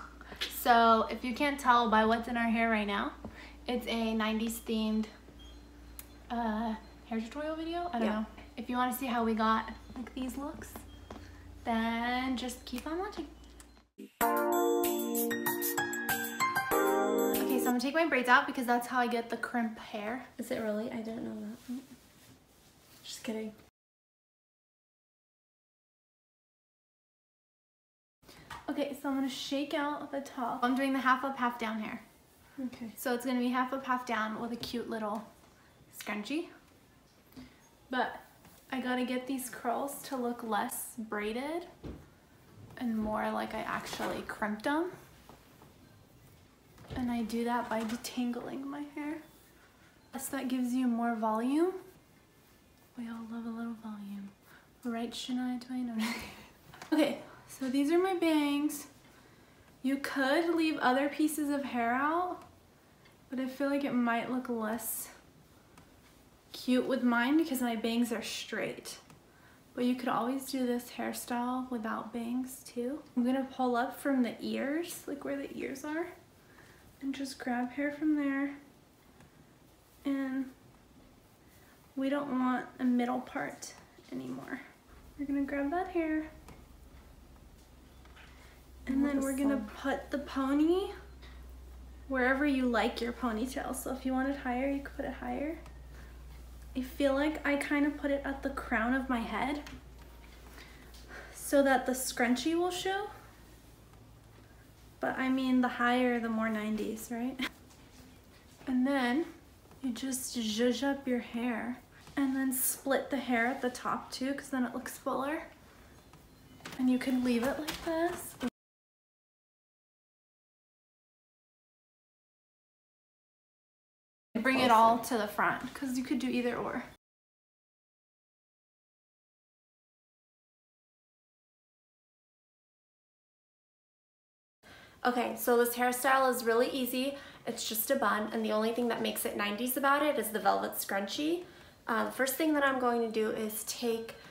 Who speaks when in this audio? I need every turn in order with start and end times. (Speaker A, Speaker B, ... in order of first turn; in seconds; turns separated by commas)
Speaker A: 0.5-3.1, Speaker A: 3.7-5.1, Speaker A: 6.3-10.8, Speaker A: 11.6-13.3, Speaker A: 17.4-20.3, Speaker B: 20.4-21.8, Speaker B: 23.0-23.5, Speaker A: 28.7-32.0, Speaker B: 32.6-33.0, Speaker A: 33.0-35.3, Speaker A: 35.9-36.5, Speaker A: 37.9-41.7, Speaker A: 42.8-44.9, Speaker A: 47.0-49.2, Speaker A: 50.1-51.8, Speaker A: 53.0-58.9, Speaker A: 59.8-62.4, Speaker A: 63.3-65.1, Speaker A: 66.5-69.0, Speaker A: 69.7-76.1, Speaker A: 77.0-78.6, Speaker A: 80.0-80.5, Speaker A: 82.0-84.6, Speaker A: 85.2-86.3, Speaker A: 88.9-90.9, Speaker B: 88.9-89.7, Speaker A: 92.1-95.6, Speaker A: 96.8-99.6, Speaker A: 101.3-103.1, Speaker A: 105.0-107.4, Speaker A: 108.7-109.3, Speaker A: 109.8-115.5, Speaker A: 116.8-118.4, Speaker A: 124.3-126.9, Speaker B: 135.0-144.2